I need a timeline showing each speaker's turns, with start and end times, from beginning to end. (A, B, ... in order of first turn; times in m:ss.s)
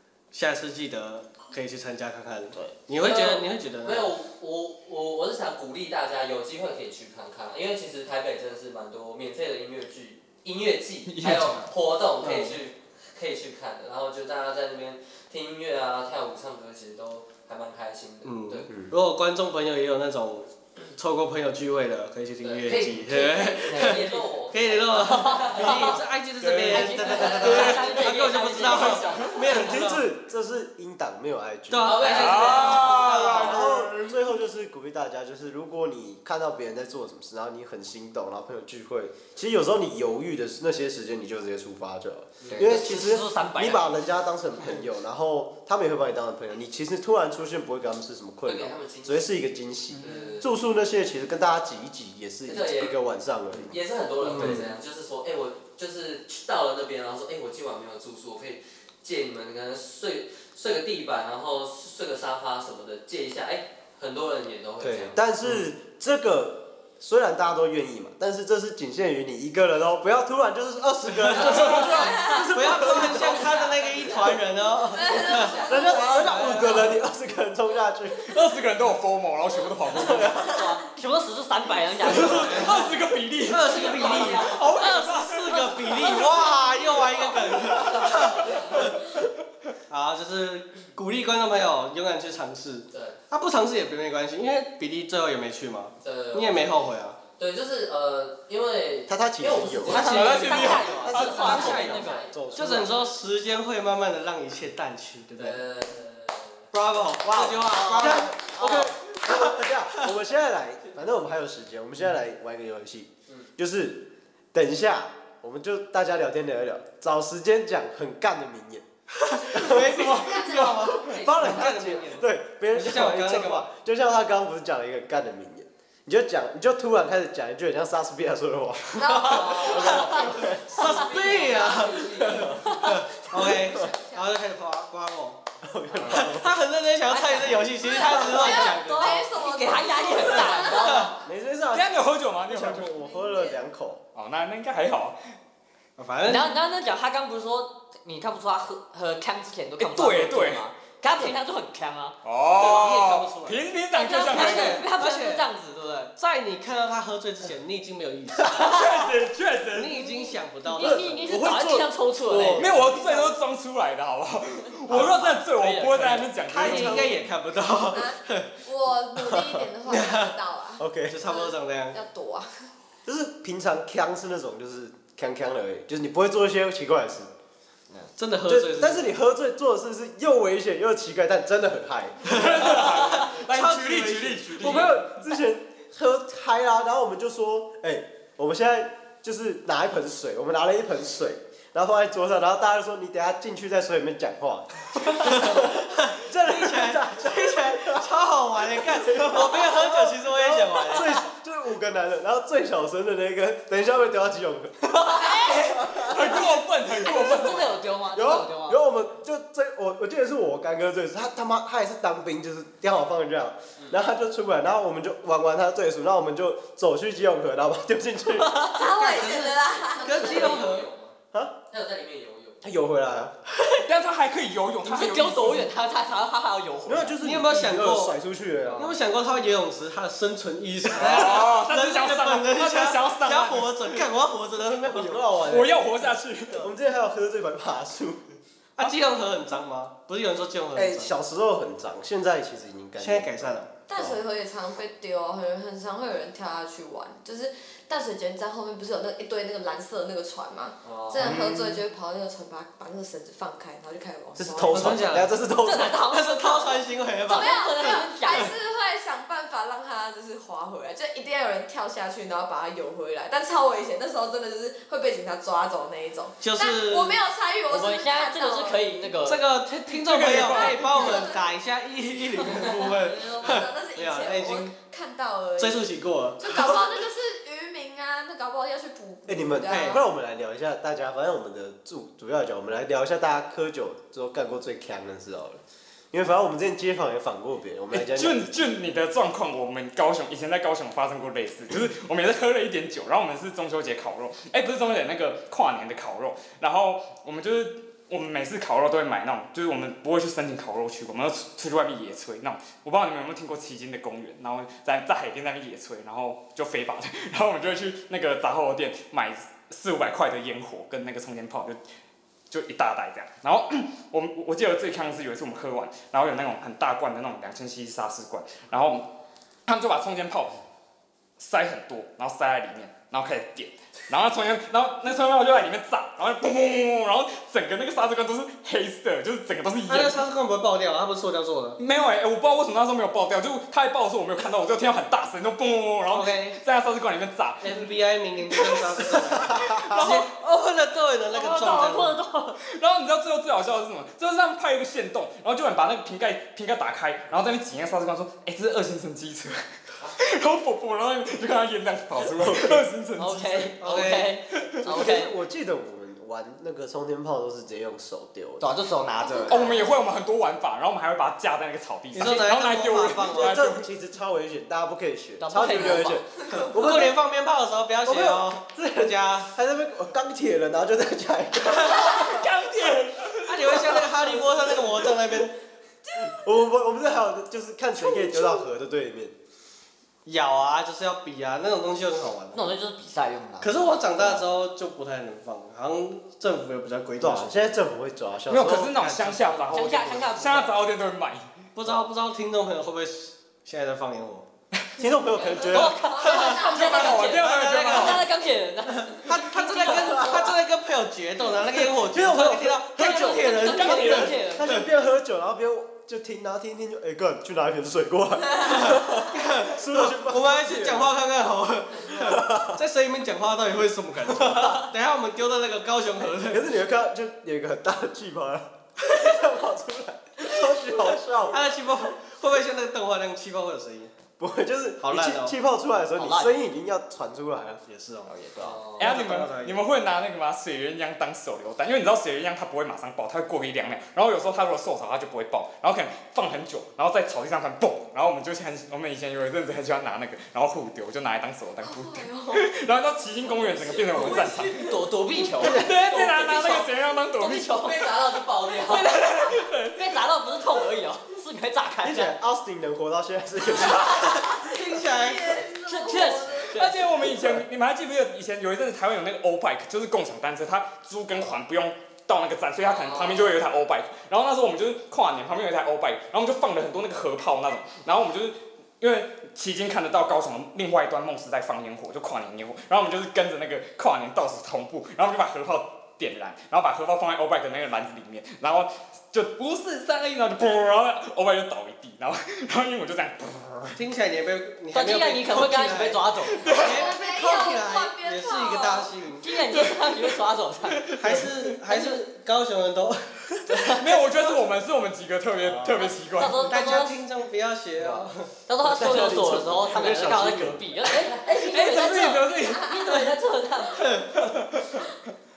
0:00.3-0:04.1 A
0:03.0-0:18.7 B
0:11.1-0:11.7 C
0:12.2-0:12.6 A
0:18.2-0:30.1 A
0:22.4-0:26.0 B
0:23.7-0:24.3 D
0:25.0-0:26.0 D
0:26.4-0:28.0 C
0:26.7-0:29.5 D
0:28.6-0:29.5 C
0:29.5-0:32.1 E
0:31.7-0:33.7 A
0:31.8-0:33.5 B
0:32.0-0:34.1 C
0:33.4-0:53.8 E
0:42.4-0:42.7 B
0:42.5-0:43.9 D
0:48.4-0:49.4 B
0:50.0-0:50.5 B
0:52.5-0:53.0 B
0:53.6-1:05.2 B
0:54.2-0:54.7 A
0:54.4-0:54.7 E
1:04.8-1:13.6 E
1:11.2-1:17.0 A
1:11.3-1:12.1 B
1:11.8-1:12.4 F
1:12.8-1:16.0 B
1:14.9-1:16.5 F
1:15.7-1:18.3 E
1:18.2-1:20.6 C
1:20.0-1:22.9 D
1:20.0-1:20.2 E
1:22.1-1:26.3 C
1:22.3-1:22.8 A
1:23.5-1:29.0 A
1:23.7-1:25.2 D
1:23.7-1:24.5 B
1:27.4-1:29.3 C
1:28.4-1:28.8 B
1:29.9-1:37.2 A
1:32.9-1:33.2 B
1:36.0-1:36.8 B
1:37.4-1:42.8 B
1:39.1-1:40.2 E
1:39.9-1:42.3 D
1:40.0-1:41.8 C
1:41.0-1:43.0 E
1:41.5-1:41.9 A
1:42.6-1:45.6 A
1:45.4-1:46.6 B
1:46.7-1:50.0 A
1:47.2-1:58.8 E
1:47.7-1:48.3 D
1:59.2-2:03.7 A
1:59.5-2:00.2 E
2:00.0-2:02.0 B
2:00.2-2:00.5 C
2:01.1-2:10.6 E
2:09.0-2:10.3 F
2:09.2-2:09.8 A
2:09.2-2:13.0 B
2:10.4-2:15.4 A
2:12.6-2:13.0 D
2:13.7-2:14.3 F
2:15.6-2:16.6 E
2:16.0-2:19.2 A
2:17.1-2:21.2 D
2:17.8-2:21.2 F
2:20.7-2:21.1 A
2:21.2-2:24.0 E
2:21.7-2:22.9 C
2:23.0-2:23.6 F
2:24.2-2:25.2 C
2:26.0-2:26.6 A
2:26.2-2:32.9 D
2:29.8-2:30.6 C
2:32.2-2:34.8 C
2:32.6-2:33.6 A
2:33.9-2:36.1 D
2:34.3-2:35.5 A
2:36.2-2:38.6 A
2:38.5-2:39.0 D
2:38.5-2:40.0 C
2:39.7-2:43.2 A
2:40.0-2:42.9 D
2:40.8-2:41.8 E
2:42.6-2:47.2 C
2:44.9-2:45.3 A
2:44.9-2:47.1 D
2:46.4-2:48.5 A
2:47.9-2:52.6 F
2:49.3-2:49.6 E
2:49.9-2:50.4 A
2:50.8-2:51.2 E
2:51.1-2:52.0 A
2:53.1-2:57.3 E
2:58.2-2:59.1 A
2:58.5-3:02.9 E
3:02.3-3:05.0 A
3:02.3-3:05.2 C
3:04.6-3:18.1 E
3:15.1-3:21.1 A
3:18.7-3:26.4 E
3:24.9-3:28.8 D
3:25.5-3:27.8 C
3:28.1-3:38.5 E
3:38.3-3:39.3 D
3:38.7-3:40.7 F
3:38.9-3:40.9 A
3:40.0-3:41.2 B
3:41.7-3:42.6 B
3:42.6-3:43.4 E
3:43.8-3:45.7 C
3:44.8-3:47.2 D
3:46.9-3:49.0 E
3:47.2-3:48.2 A
3:48.8-3:55.4 A
3:51.0-3:54.1 C
3:51.0-3:51.4 E
3:54.8-3:58.2 E
3:55.4-3:56.7 C
3:58.8-4:01.1 A
4:00.8-4:04.2 E
4:03.0-4:03.7 A
4:03.9-4:15.1 F
4:10.8-4:11.4 B
4:11.2-4:11.8 E
4:14.4-4:16.0 E
4:14.7-4:15.4 A
4:15.6-4:18.5 D
4:16.1-4:18.0 A
4:17.3-4:29.0 F
4:26.4-4:27.2 A
4:27.7-4:29.5 D
4:29.2-4:34.7 A
4:29.9-4:31.3 C
4:30.5-4:31.5 F
4:32.6-4:40.0 F
4:35.6-4:36.8 A
4:39.3-4:45.6 E
4:39.7-4:40.0 A
4:46.1-4:48.6 E
4:47.9-5:11.8 C
5:12.5-5:19.1 C
5:19.7-5:20.6 C
5:21.4-5:30.2 C
5:29.9-5:31.8 A
5:31.8-5:37.9 C
5:36.1-5:36.6 A
5:37.6-5:42.2 A
5:38.5-5:40.3 C
5:41.3-5:42.6 D
5:42.6-5:53.7 C
5:52.4-5:52.8 E
5:53.2-5:55.3 D
5:53.8-5:54.4 A
5:54.5-5:54.9 C
5:54.8-5:58.7 E
5:58.6-6:00.0 D
5:59.2-5:59.8 F
5:59.5-6:03.9 C
6:02.1-6:03.6 A
6:03.4-6:07.2 E
6:05.4-6:06.3 D
6:06.5-6:09.5 A
6:08.0-6:12.5 E
6:11.9-6:14.1 C
6:13.4-6:15.5 A
6:16.2-6:19.3 E
6:18.1-6:18.6 F
6:20.2-6:22.6 A
6:22.5-6:24.5 D
6:23.6-6:27.8 A
6:27.2-6:29.0 E
6:28.5-6:31.5 C
6:29.0-6:29.9 A
6:29.6-6:30.8 D
6:31.8-6:34.5 A
6:35.0-6:36.0 E
6:35.6-6:40.6 D
6:36.0-6:37.2 F
6:36.2-6:38.3 A
6:36.3-6:38.2 C
6:39.1-6:44.9 A
6:42.0-6:51.1 E
6:43.0-6:44.8 D
6:48.6-6:56.7 A
6:52.1-6:52.8 E
6:56.5-7:01.6 E
7:01.5-7:04.1 A
7:04.4-7:07.8 E
7:05.0-7:05.6 A
7:06.2-7:06.6 D
7:07.9-7:08.3 A
7:08.3-7:08.8 D
7:08.6-7:09.1 B
7:09.0-7:25.0 C
7:09.0-7:09.9 A
7:21.8-7:22.7 F
7:23.5-7:24.4 B
7:23.6-7:28.1 D
7:25.6-7:27.8 C
7:27.6-7:29.1 B
7:28.8-7:32.3 D
7:29.0-7:30.1 C
7:32.0-7:34.4 E
7:33.7-7:36.8 F
7:34.0-7:35.6 A
7:35.8-7:37.5 D
7:36.7-8:04.0 C
7:42.8-7:43.6 B
8:04.0-8:09.5 A
8:04.9-8:06.8 D
8:06.5-8:07.1 C
8:06.7-8:09.2 F
8:09.4-8:11.2 D
8:09.8-8:10.3 C
8:11.0-8:11.5 C
8:11.2-8:14.0 A
8:11.9-8:12.2 D
8:13.8-8:14.5 D
8:13.9-8:16.7 C
8:15.6-8:18.5 A
8:16.3-8:17.2 D
8:18.7-8:24.2 D
8:18.8-8:20.9 E
8:21.0-8:21.6 B
8:21.6-8:23.2 C
8:24.0-8:24.2 A
8:24.3-8:25.1 C